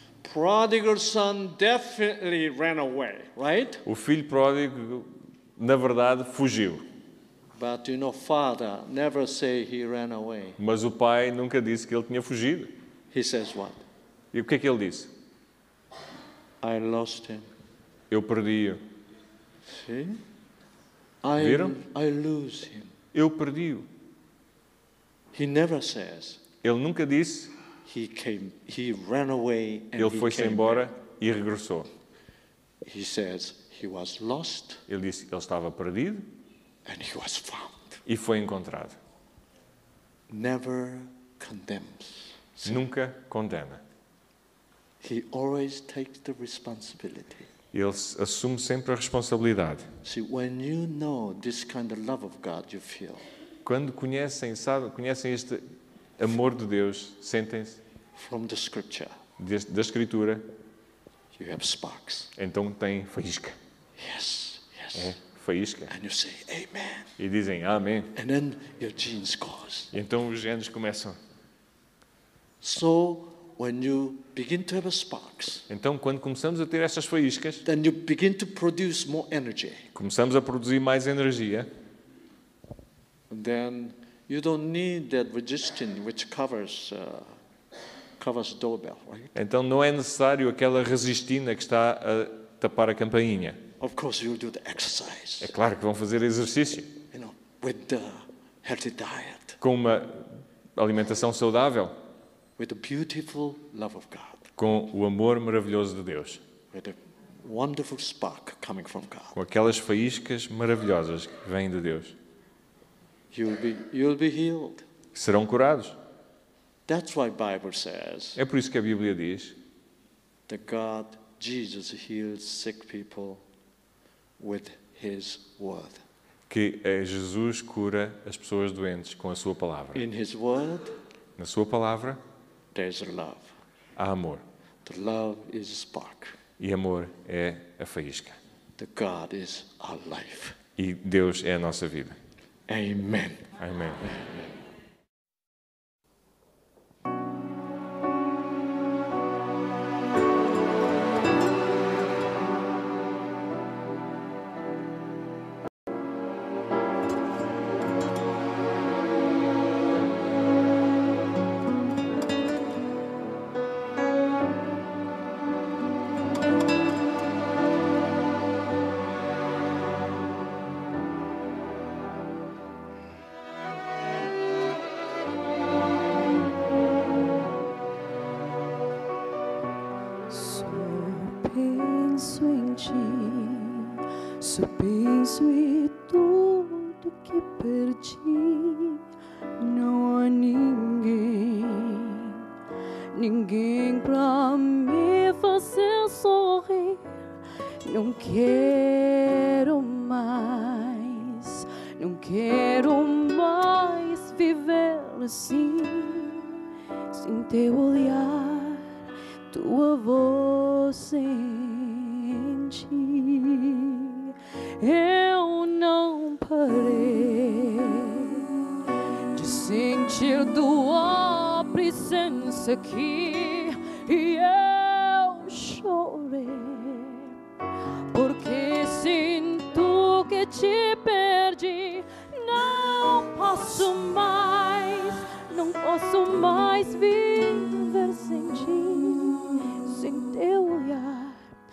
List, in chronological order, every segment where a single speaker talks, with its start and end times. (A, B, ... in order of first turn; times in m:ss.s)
0:00.2-0:03.8 A
0:03.8-0:06.8 B
0:07.6-0:10.6 A
0:10.6-0:12.7 B
0:13.1-0:13.8 A
0:14.3-0:15.1 B
0:16.6-0:17.5 A
0:18.1-0:18.8 B
0:19.7-0:20.2 A
0:21.2-0:22.9 A
0:21.4-0:21.8 B
0:23.1-0:23.9 B
0:25.3-0:26.4 A
0:26.6-0:27.5 B
0:27.9-0:30.9 A
0:30.0-0:31.9 B
0:32.8-0:34.8 A
0:34.9-0:36.3 B
0:36.9-0:38.0 A
0:38.1-0:39.0 B
0:40.3-0:42.8 A
0:42.6-0:43.8 B
0:45.0-0:47.5 A
0:47.7-0:49.9 B
0:50.0-0:53.2 A
0:53.6-0:55.6 B
0:56.2-0:57.8 B
0:58.2-0:59.1 A
0:59.4-1:00.5 B
1:01.4-1:02.3 A
1:02.4-1:03.6 B
1:04.0-1:05.2 A
1:05.0-1:05.9 B
1:05.9-1:07.2 A
1:07.2-1:08.1 B
1:08.2-1:09.9 A
1:09.9-1:11.2 B
1:12.6-1:15.7 A
1:15.7-1:17.6 B
1:17.7-1:19.9 A
1:19.9-1:21.7 B
1:23.3-1:27.4 A
1:28.2-1:29.3 A
1:29.4-1:33.6 B
1:33.8-1:35.5 A
1:35.4-1:36.9 B
1:37.1-1:39.6 A
1:39.6-1:42.0 B
1:42.6-1:44.5 A
1:44.6-1:46.4 B
1:46.7-1:49.4 A
1:49.4-1:52.2 B
1:53.3-1:54.8 A
1:55.2-1:56.0 B
1:56.9-1:58.4 A
1:58.4-1:59.6 B
2:00.5-2:03.4 A
2:04.4-2:06.0 A
2:06.5-2:10.1 B
2:10.0-2:10.9 A
2:11.4-2:12.2 B
2:12.7-2:13.5 A
2:14.0-2:14.4 B
2:14.8-2:16.4 A
2:16.6-2:18.4 B
2:18.8-2:20.6 A
2:20.8-2:22.2 B
2:22.7-2:23.5 A
2:23.6-2:24.1 B
2:24.1-2:24.4 A
3:00.3-3:09.0 C
3:09.6-3:12.5 C
3:13.1-3:17.2 C
3:17.8-3:26.5 C
3:27.1-3:28.9 C
3:29.5-3:38.5 C
3:39.3-3:47.4 C
3:48.1-4:01.4 C